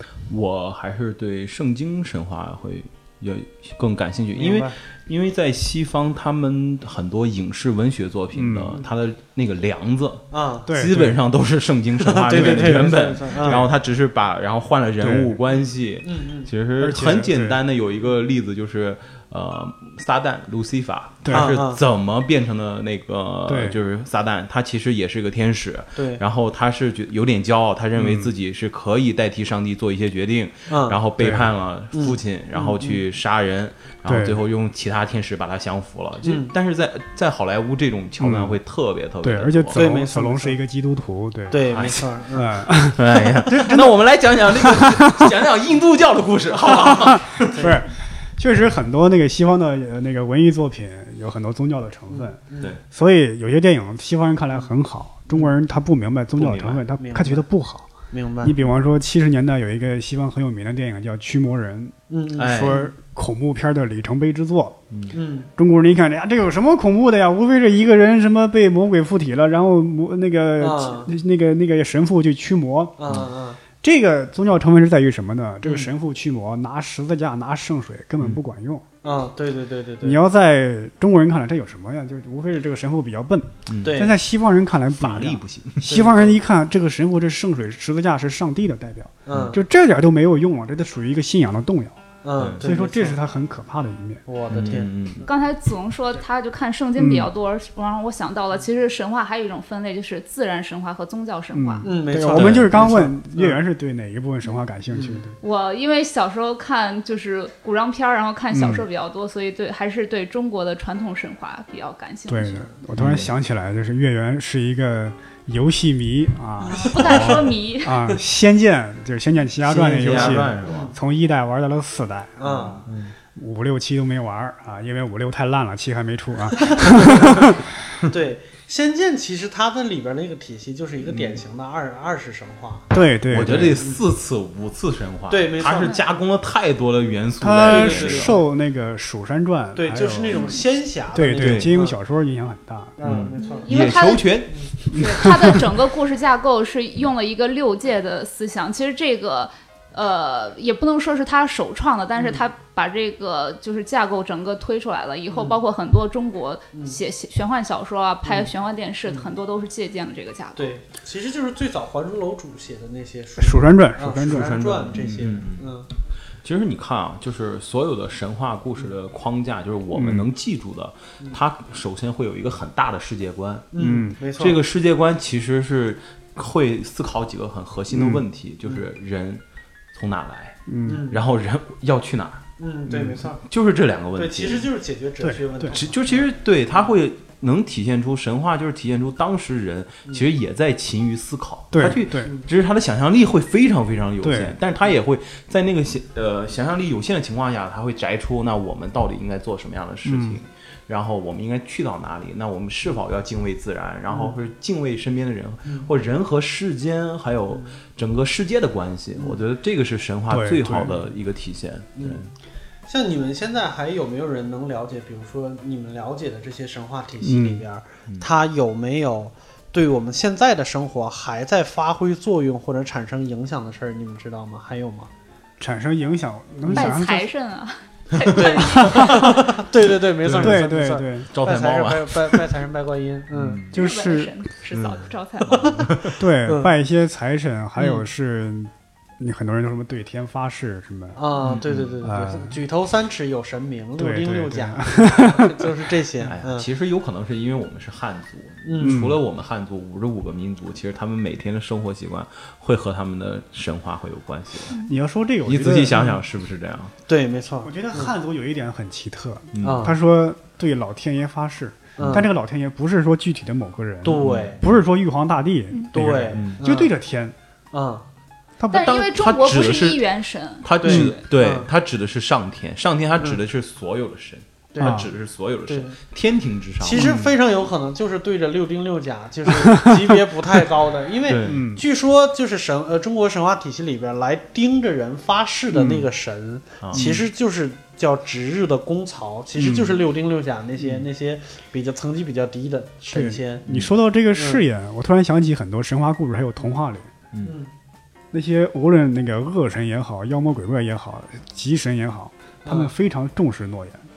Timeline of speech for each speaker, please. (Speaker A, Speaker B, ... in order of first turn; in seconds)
Speaker A: 0.3-39.9, 41.7-42.0, 43.0-47.6, 56.4-56.8, 62.4-62.8, 64.9-65.2, 83.7-84.0, 85.0-86.0, 92.4-92.7, 94.5-95.3, 102.3-102.9, 113.0-113.3, 119.7-120.9, 122.4-123.2, 131.1-131.4, 133.3-138.4, 141.4-141.7, 143.0-145.0, 164.2-165.7, 166.4-184.7, 185.7-212.3, 228.2-228.5, 230.2-230.7, 231.3-232.4, 233.3-233.8, 234.7-236.2, 241.4-242.0, 246.2-254.8, 255.4-256.9, 259.5-259.9, 264.1-264.8, 266.3-266.6, 268.7-270.1, 270.6-277.3, 281.3-281.7, 286.8-287.1, 290.8-291.1
Speaker B: 4.3-4.8, 10.3-10.8, 12.0-13.7, 16.0-16.5, 21.3-21.8, 26.0-26.2, 30.7-31.0, 31.9-33.0, 36.2-36.5, 39.7-40.6, 41.5-42.7, 47.4-47.8, 52.1-52.7, 57.0-57.5, 58.1-58.6, 62.1-62.9, 65.1-65.5, 70.6-71.1, 73.0-73.6, 75.6-75.9, 79.0-80.2, 83.8-84.1, 85.9-86.4, 89.3-89.6, 92.2-93.2, 94.3-94.9, 101.8-103.6, 104.9-105.2, 116.7-117.4, 120.0-121.0, 122.4-122.9, 126.6-127.4, 128.1-132.9, 133.4-134.0, 135.3-136.0, 137.6-138.4, 139.8-142.0, 143.0-143.9, 152.2-152.4, 155.3-155.6, 158.2-158.5, 160.6-165.9, 173.7-174.6, 180.8-181.2, 182.6-183.4, 184.2-186.2, 204.1-204.3, 212.0-212.2, 212.9-225.1, 226.7-226.9, 228.3-233.6, 235.6-236.7, 237.8-238.0, 241.2-246.7, 248.7-249.1, 257.1-258.1, 259.6-260.0, 262.0-262.3, 264.0-264.6, 265.9-266.9, 267.7-268.1, 270.8-271.7, 274.7-275.1, 275.7-276.0, 276.8-293.7, 294.3-294.6, 297.4-297.7, 302.6-302.9
Speaker C: 8.3-8.8, 10.7-11.2, 12.3-12.9, 15.0-15.4, 16.8-17.6, 21.2-21.6, 23.5-23.8, 28.0-28.3, 31.2-31.5, 34.1-34.4, 38.2-38.6, 39.2-44.0, 44.6-45.3, 46.7-52.4, 52.9-57.9, 58.4-64.8, 65.6-73.3, 73.8-78.8, 80.0-92.1, 92.6-94.2, 97.0-97.3, 101.5-105.4, 108.5-108.9, 112.3-122.5, 123.3-127.7, 132.9-133.8, 137.4-140.6, 141.1-143.0, 144.9-145.7, 163.4-164.6, 169.9-170.3, 173.8-174.2, 177.9-178.2, 180.7-181.0, 185.2-185.7, 191.7-192.3, 194.2-194.6, 200.1-200.4, 210.3-211.0, 217.2-217.6, 225.6-227.3, 228.8-229.3, 230.3-231.3, 233.7-234.3, 236.2-241.2, 242.0-242.6, 244.0-245.6, 248.8-249.2, 254.8-256.0, 257.6-267.4, 268.6-268.9, 274.8-275.1, 276.9-277.3, 279.5-280.2, 281.4-281.8, 285.8-286.0, 286.9-287.2, 289.6-290.0, 293.1-297.1, 298.3-304.1
Speaker D: 95.3-101.9, 105.4-112.7, 116.7-118.0, 143.4-160.7, 226.7-229.5, 233.7-235.8, 268.7-271.2